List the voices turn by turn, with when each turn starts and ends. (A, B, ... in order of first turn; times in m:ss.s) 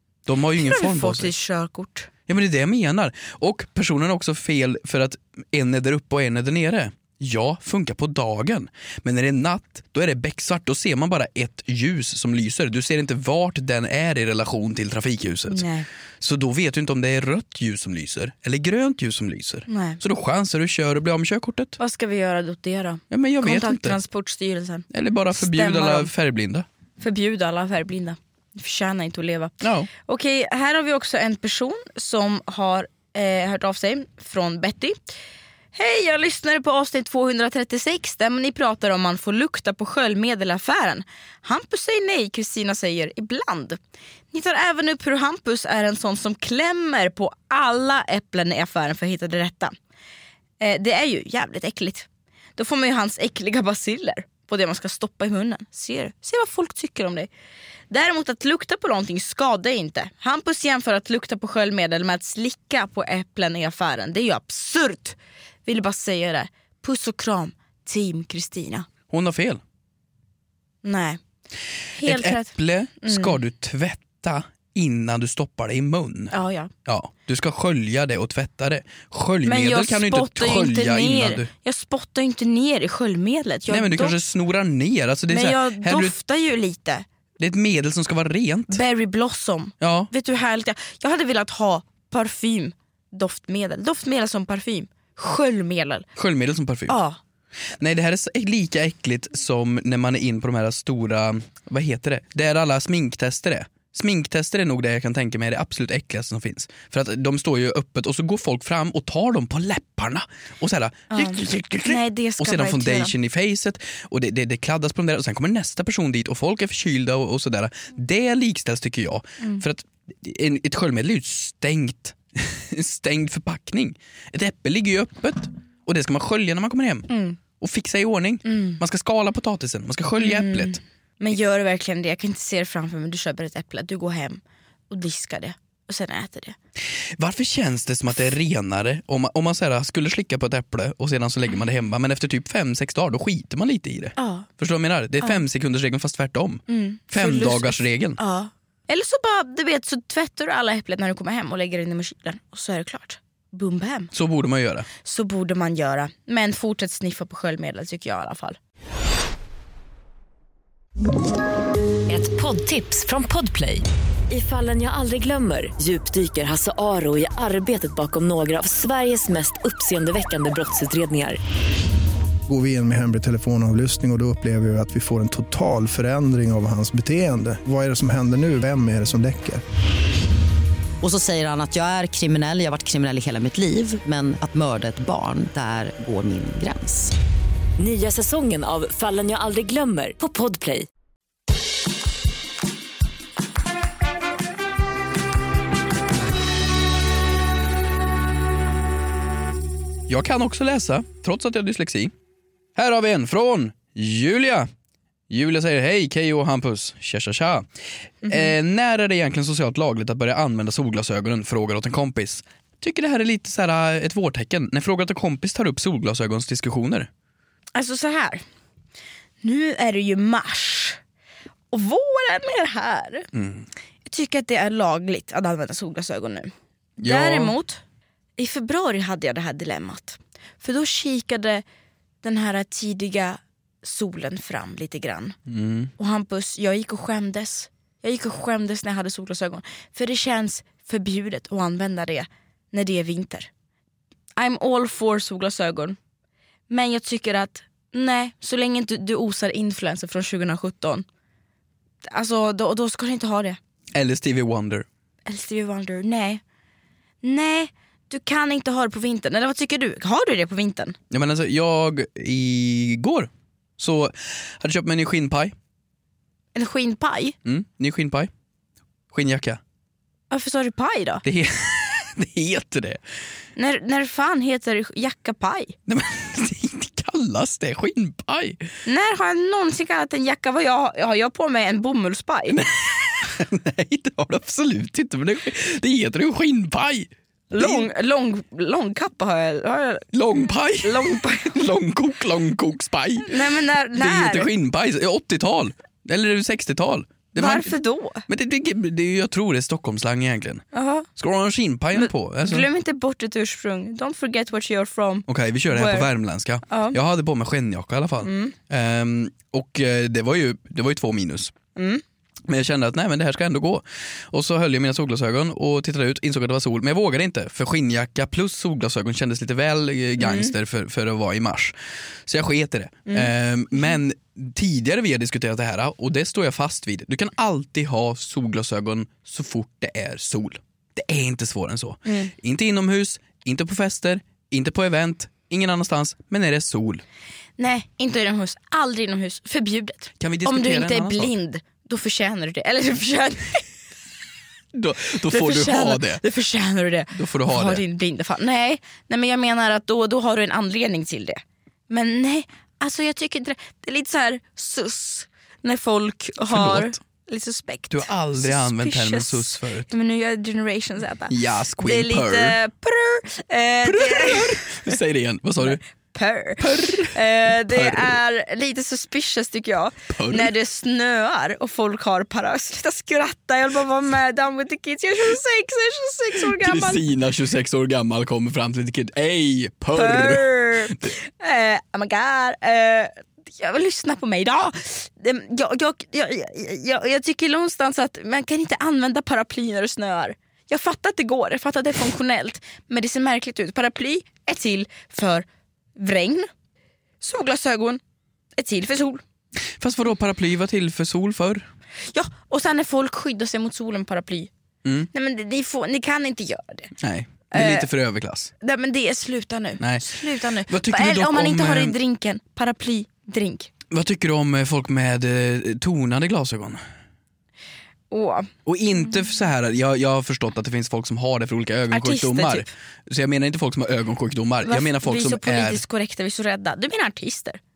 0:00.3-0:01.3 A
0:00.6-0:02.1 B
0:02.3-0:15.7 A
0:15.5-0:15.9 B
0:16.2-0:21.8 A
0:19.7-0:20.0 B
0:21.8-0:26.1 B
0:23.1-0:24.0 A
0:24.9-0:26.7 A
0:27.0-0:35.0 B
0:29.6-0:29.9 A
0:35.7-0:43.8 B
0:44.3-0:49.7 B
0:50.6-0:57.3 B
0:57.9-1:08.9 B
1:09.1-1:09.6 A
1:10.8-1:11.2 B
1:12.0-1:13.4 B
1:12.0-1:16.4 A
1:16.3-1:16.7 B
1:16.9-1:21.5 A
1:19.4-1:24.2 B
1:23.7-1:26.2 A
1:25.3-1:27.1 B
1:27.4-1:28.8 A
1:28.7-1:36.1 B
1:29.8-1:30.1 A
1:36.2-1:37.0 A
1:36.9-1:37.2 B
1:37.8-2:10.8 A
1:51.1-1:53.1 B
2:07.1-2:07.4 B
2:08.4-2:08.8 B
2:10.2-2:16.6 B
2:17.2-2:28.2 A
2:24.2-2:24.5 B
2:26.7-2:34.1 B
2:34.1-2:34.9 A
2:35.0-2:38.6 B
2:42.1-2:51.4 C
2:52.5-2:59.6 D
3:01.0-3:07.1 E
3:07.8-3:10.9 C
3:20.1-3:22.1 A
3:22.8-3:24.7 A
3:25.3-3:27.7 A
3:28.2-3:37.1 A
3:28.2-3:28.5 B
3:37.8-3:38.4 B
3:39.4-3:41.0 B
3:41.7-3:43.3 B
3:43.3-3:43.7 A
3:44.1-3:47.8 B
3:47.0-3:47.6 A
3:48.4-3:51.6 B
3:52.2-3:55.4 B
3:55.5-3:55.9 A
3:56.0-4:03.5 B
4:04.4-4:06.0 B
4:06.7-4:11.0 B
4:12.0-4:13.6 B
4:13.9-4:14.9 A
4:15.3-4:16.4 B
4:17.2-4:21.0 B
4:21.1-4:25.5 A
4:26.6-4:27.4 B
4:27.4-4:28.3 A
4:29.1-4:29.6 A
4:30.3-4:31.2 B
4:31.2-4:33.0 A
4:33.6-4:35.7 B
4:35.9-4:38.6 A
4:38.9-4:42.6 B
4:42.5-4:47.9 A
4:47.5-4:50.1 B
4:50.1-5:00.6 A
4:50.8-4:51.6 B
4:53.3-4:54.5 B
4:57.4-4:58.3 B
5:00.7-5:01.1 B
5:01.2-5:02.7 A
5:01.9-5:06.1 B
5:05.3-5:11.5 A
5:06.7-5:07.0 B
5:08.2-5:08.6 B
5:11.8-5:12.0 B
5:12.5-5:37.0 A
5:20.2-5:20.5 B
5:23.1-5:23.9 B
5:32.1-5:32.3 B
5:37.6-5:43.6 B
5:40.2-5:41.3 A
5:44.7-5:46.2 A
5:45.3-6:05.0 B
5:47.1-5:47.8 A
5:56.5-5:57.0 A
5:57.9-5:59.9 A
6:01.3-6:02.6 A
6:03.8-6:05.8 A
6:05.6-6:17.0 B
6:06.6-6:08.2 A
6:10.1-6:10.5 A
6:16.4-6:21.1 A
6:19.9-6:36.5 B
6:37.2-6:38.0 B
6:38.6-6:39.2 B
6:39.8-6:41.7 A
6:42.1-6:44.5 B
6:44.8-6:45.1 A
6:45.1-6:46.9 B
6:47.0-6:48.5 A
6:47.5-6:47.9 B
6:48.6-6:53.7 B
6:49.8-6:52.0 A
6:53.9-6:56.8 A
6:58.1-6:58.5 B
6:58.7-7:05.8 A
7:01.9-7:02.7 B
7:04.6-7:07.6 B